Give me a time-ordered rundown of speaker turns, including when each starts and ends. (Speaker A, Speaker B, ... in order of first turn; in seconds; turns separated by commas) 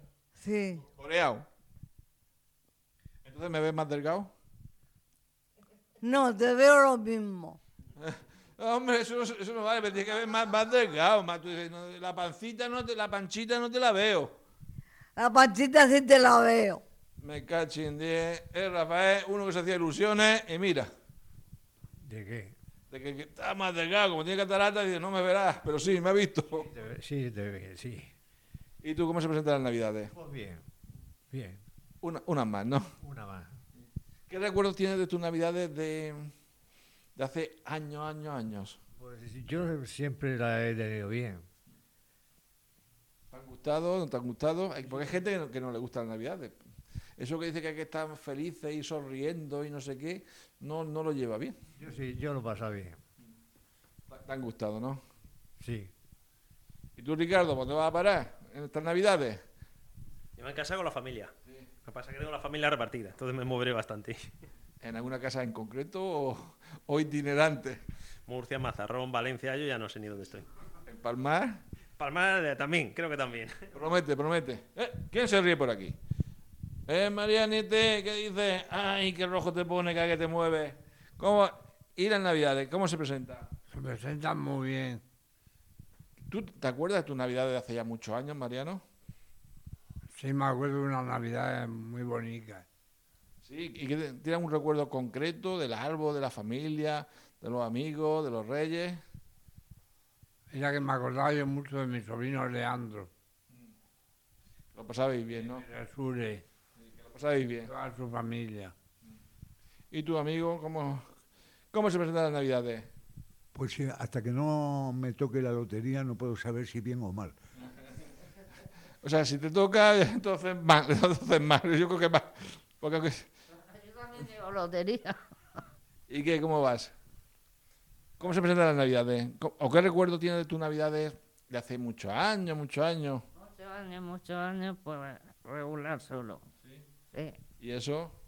Speaker A: 0.3-0.8, Speaker B: 0.9-1.4, Speaker B: 3.2-4.3, Speaker A: 6.0-7.6, Speaker B: 8.0-14.3, Speaker A: 15.2-16.8, Speaker B: 17.2-20.9, Speaker C: 22.0-22.5, Speaker B: 22.9-26.7, Speaker C: 26.5-28.1, Speaker B: 28.8-30.1, Speaker C: 30.1-30.7, Speaker C: 31.3-31.6, Speaker B: 32.0-32.9, Speaker C: 33.0-33.6, Speaker B: 34.3-36.3, Speaker B: 37.1-38.8, Speaker C: 39.0-41.5, Speaker B: 43.3-46.6, Speaker B: 47.2-51.5, Speaker C: 51.8-53.0, Speaker B: 54.1-55.0, Speaker C: 55.6-55.9, Speaker B: 57.0-59.4, Speaker D: 60.4-61.3, Speaker D: 61.8-64.3, Speaker B: 64.8-67.8, Speaker D: 68.3-70.5, Speaker B: 70.8-71.6, Speaker D: 72.0-73.5, Speaker B: 73.7-76.0, Speaker B: 76.9-83.5, Speaker E: 83.7-85.0, Speaker B: 86.3-88.8, Speaker E: 90.1-92.7, Speaker B: 93.4-99.0, Speaker E: 100.5-103.1, Speaker B: 104.7-105.6, Speaker E: 105.3-106.4, Speaker B: 106.8-107.7, Speaker E: 107.6-108.7, Speaker B: 109.9-111.0, Speaker B: 111.7-112.9, Speaker F: 113.5-117.3, Speaker B: 119.0-123.3, Speaker G: 123.7-125.2, Speaker B: 126.1-126.9, Speaker B: 128.2-133.2, Speaker G: 133.4-136.4, Speaker G: 137.1-137.4, Speaker B: 137.6-138.2